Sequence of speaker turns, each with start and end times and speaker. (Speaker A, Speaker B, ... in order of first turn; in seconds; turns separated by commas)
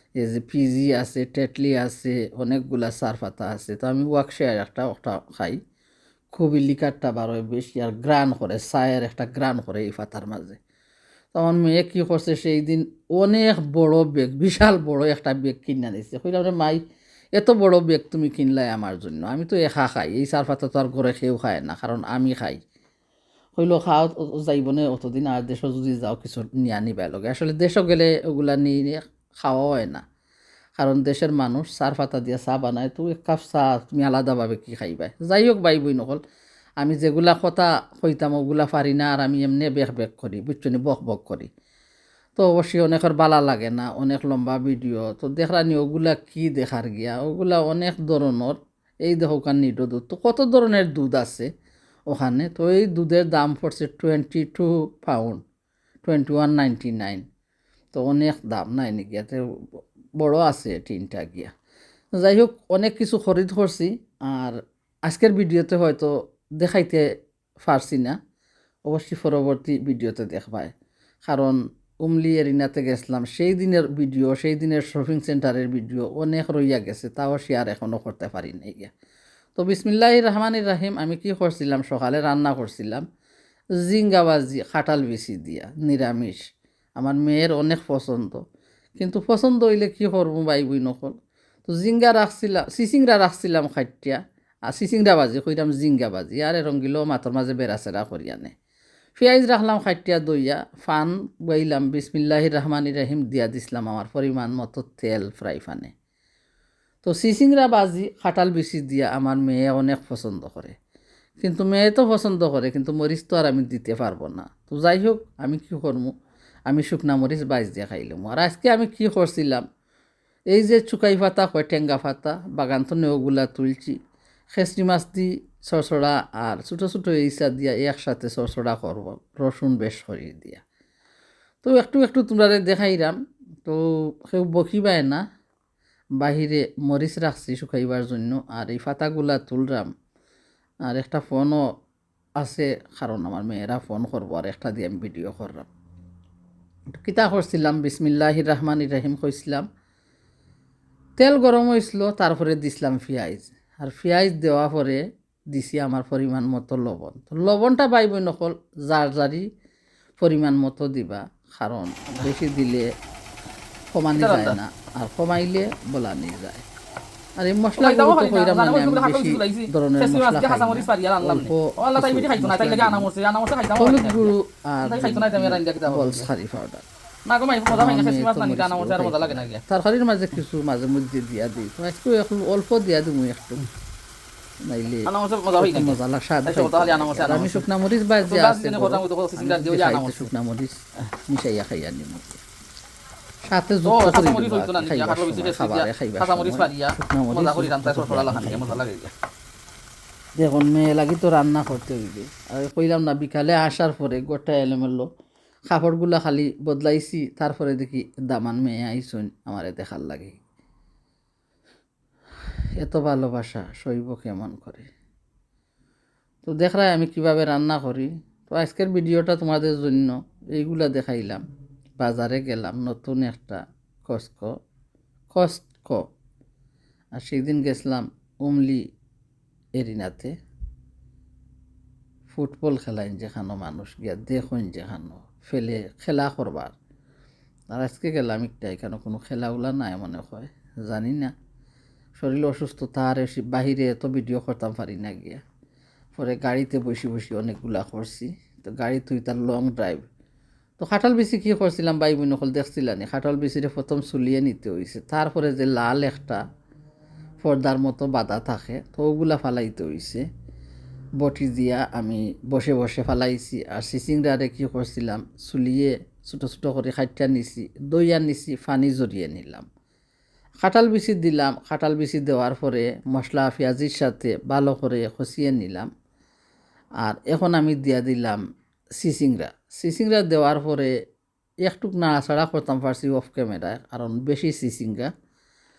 Speaker A: 0.2-5.6, Speaker A: 6.3-10.6, Speaker A: 11.3-16.8, Speaker A: 17.3-22.6, Speaker A: 23.6-30.0, Speaker A: 30.8-36.2, Speaker A: 36.8-41.5, Speaker A: 42.4-51.5, Speaker A: 52.1-55.4, Speaker A: 56.0-57.2, Speaker A: 57.9-59.4, Speaker A: 60.2-61.5, Speaker A: 62.2-64.5, Speaker A: 65.1-67.0, Speaker A: 67.6-68.2, Speaker A: 68.9-70.7, Speaker A: 71.2-78.9, Speaker A: 79.5-83.0, Speaker A: 83.8-86.4, Speaker A: 87.0-88.4, Speaker A: 89.0-91.1, Speaker A: 91.7-94.2, Speaker A: 94.7-98.5, Speaker A: 99.2-105.9, Speaker A: 107.0-110.7, Speaker A: 111.4-116.1, Speaker A: 116.7-119.6, Speaker A: 120.5-123.9, Speaker A: 124.5-130.6, Speaker A: 131.6-135.2, Speaker A: 136.2-139.9, Speaker A: 140.9-141.6, Speaker A: 142.4-145.7, Speaker A: 146.9-149.6, Speaker A: 151.2-159.5, Speaker A: 160.2-162.9, Speaker A: 163.9-166.6, Speaker B: 164.1-164.6, Speaker A: 167.4-173.1, Speaker B: 167.8-174.3, Speaker A: 173.8-176.8, Speaker B: 174.8-176.3, Speaker B: 177.2-179.6, Speaker A: 177.7-183.7, Speaker A: 184.7-185.1, Speaker B: 185.1-187.6, Speaker A: 185.6-192.4, Speaker B: 188.2-190.3, Speaker A: 193.4-198.8, Speaker B: 193.8-199.1, Speaker A: 200.4-205.1, Speaker A: 205.7-210.4, Speaker A: 212.8-214.9, Speaker A: 216.4-221.4, Speaker A: 222.0-224.5, Speaker A: 225.3-226.0, Speaker A: 227.2-228.8, Speaker A: 229.8-230.3, Speaker A: 232.3-236.7, Speaker A: 237.7-241.3, Speaker A: 242.2-245.4, Speaker A: 246.1-250.1, Speaker A: 250.8-256.4, Speaker A: 257.4-260.2, Speaker A: 261.2-269.6, Speaker A: 270.6-275.9, Speaker A: 277.0-278.4, Speaker A: 279.0-280.9, Speaker A: 281.6-285.1